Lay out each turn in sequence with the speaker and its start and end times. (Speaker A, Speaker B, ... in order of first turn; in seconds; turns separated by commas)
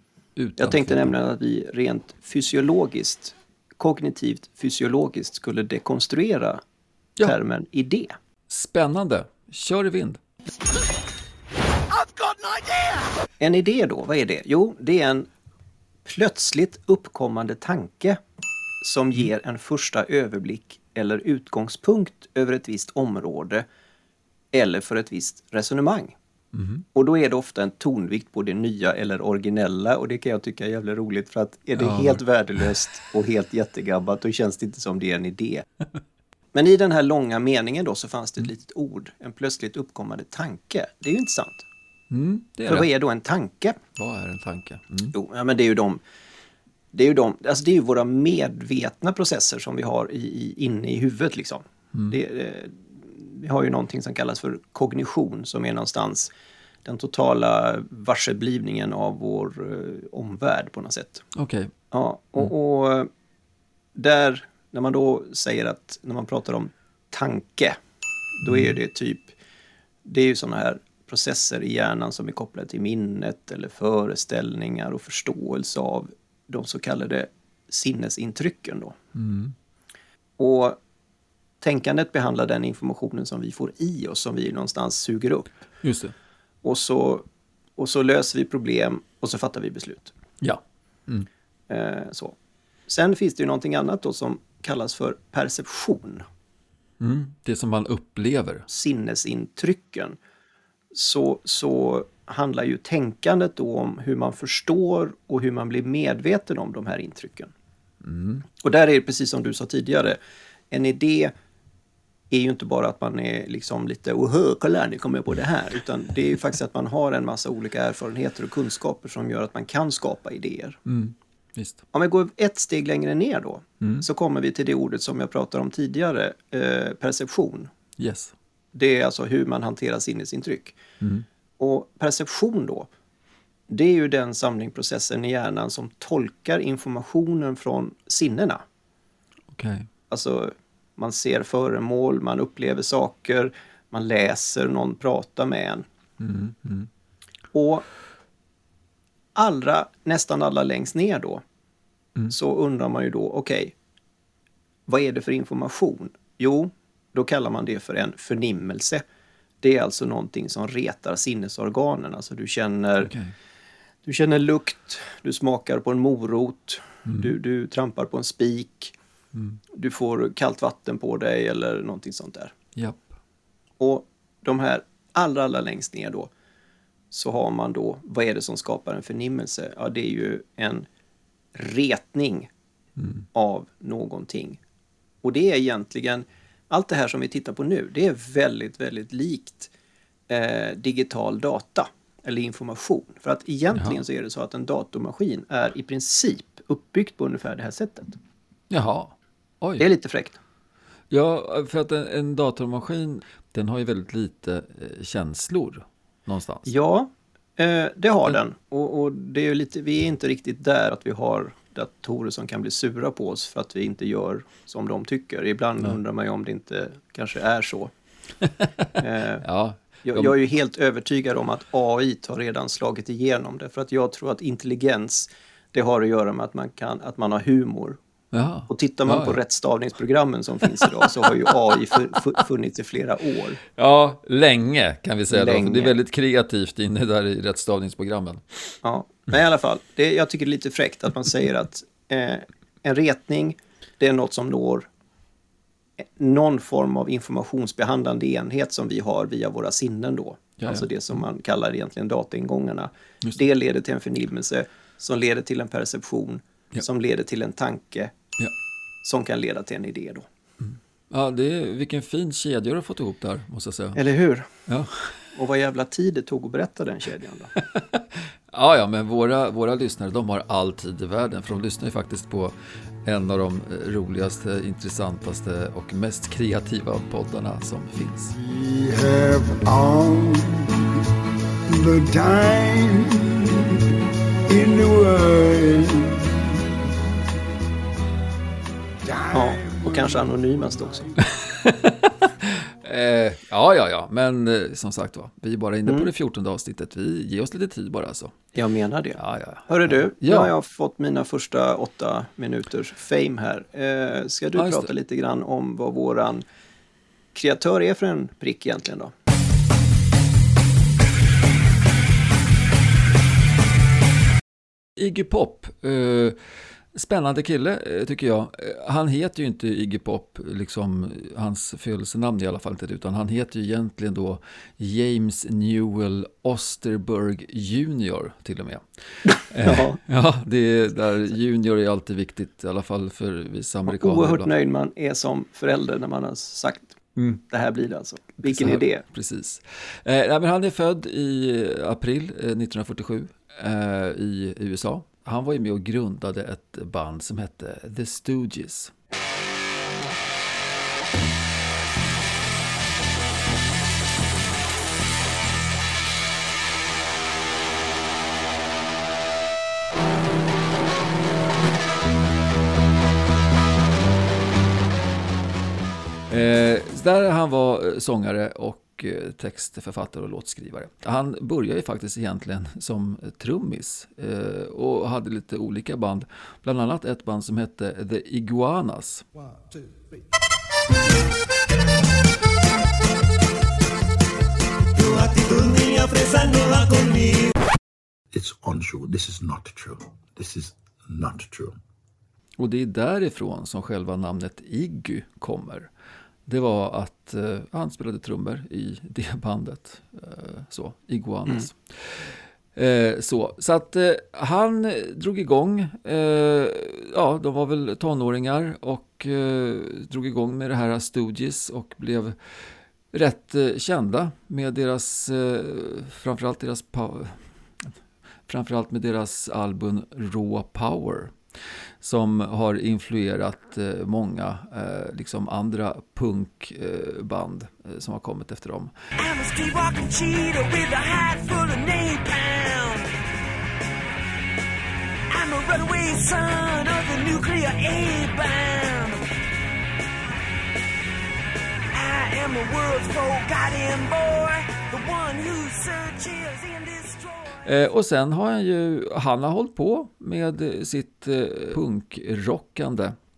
Speaker A: 0.4-1.1, Speaker B: 0.6-6.6, Speaker B: 7.2-8.1, Speaker A: 8.5-10.2, Speaker C: 12.2-13.0, Speaker B: 13.4-15.3, Speaker B: 16.0-18.2, Speaker B: 18.8-23.6, Speaker B: 24.5-26.2, Speaker A: 26.5-26.8, Speaker B: 26.9-35.6, Speaker A: 31.8-32.7, Speaker B: 36.5-41.6, Speaker A: 42.1-42.9, Speaker B: 42.6-43.8, Speaker A: 44.0-45.1, Speaker B: 45.1-46.0, Speaker B: 46.9-56.3, Speaker B: 56.8-61.2, Speaker A: 61.3-61.7, Speaker B: 61.9-63.1, Speaker B: 64.0-67.8, Speaker B: 68.4-69.3, Speaker A: 68.5-68.8, Speaker B: 70.0-79.0, Speaker A: 79.1-79.5, Speaker B: 80.4-80.8, Speaker B: 81.6-85.5, Speaker A: 85.8-86.1, Speaker B: 86.6-87.2, Speaker B: 87.8-90.1, Speaker A: 90.4-91.3, Speaker B: 91.7-92.3, Speaker B: 92.9-96.2, Speaker A: 97.0-98.7, Speaker B: 98.7-100.2, Speaker B: 100.9-107.5, Speaker A: 108.0-108.4, Speaker B: 108.6-111.3, Speaker B: 112.3-120.8, Speaker A: 120.8-121.8, Speaker B: 121.9-127.7, Speaker A: 123.8-124.0, Speaker A: 128.0-128.3, Speaker B: 128.7-130.8, Speaker A: 131.0-131.2, Speaker B: 131.6-132.9, Speaker B: 133.7-138.6, Speaker A: 139.5-139.9, Speaker B: 140.1-145.9, Speaker A: 146.2-146.9, Speaker B: 147.5-147.8, Speaker B: 149.3-151.4, Speaker B: 152.3-153.7, Speaker B: 154.9-159.0, Speaker B: 159.6-163.1, Speaker A: 163.0-163.3, Speaker B: 164.0-168.9, Speaker A: 167.1-167.3, Speaker A: 169.3-169.6, Speaker B: 169.7-172.5, Speaker A: 172.8-173.1, Speaker B: 173.8-176.3, Speaker B: 177.1-180.9, Speaker B: 181.5-182.5, Speaker A: 183.0-183.2, Speaker B: 183.3-184.6, Speaker B: 185.2-189.7, Speaker B: 190.3-198.2, Speaker A: 193.7-194.0, Speaker A: 198.7-199.9, Speaker B: 199.8-200.4, Speaker A: 201.1-206.7, Speaker B: 206.7-217.9, Speaker A: 218.4-220.3, Speaker B: 218.9-219.4, Speaker B: 220.0-228.0, Speaker A: 228.3-229.4, Speaker B: 228.7-233.6, Speaker A: 233.8-238.7, Speaker B: 235.3-235.9, Speaker B: 238.8-244.9, Speaker B: 246.0-258.1, Speaker A: 250.6-250.9, Speaker B: 259.0-260.3, Speaker A: 260.6-264.0, Speaker B: 263.9-264.5, Speaker A: 264.7-265.1, Speaker B: 265.3-267.5, Speaker A: 267.6-272.5, Speaker A: 273.0-278.3, Speaker D: 278.4-280.8, Speaker D: 281.7-283.7, Speaker D: 284.5-286.4, Speaker D: 289.0-290.3, Speaker B: 289.3-291.1, Speaker A: 291.4-298.4, Speaker B: 295.8-296.1, Speaker B: 298.5-306.4, Speaker A: 299.2-300.5, Speaker A: 304.6-304.9, Speaker B: 307.3-309.1, Speaker A: 315.0-316.4, Speaker A: 316.9-334.5, Speaker B: 329.6-330.0, Speaker B: 333.9-339.0, Speaker A: 338.4-348.9, Speaker A: 366.3-379.2, Speaker E: 388.4-391.7, Speaker A: 392.6-395.9, Speaker A: 396.4-412.4, Speaker A: 413.1-417.4, Speaker A: 418.5-421.3, Speaker A: 422.0-428.9, Speaker C: 429.2-433.1, Speaker C: 435.3-439.2, Speaker C: 441.9-447.4, Speaker A: 447.6-453.1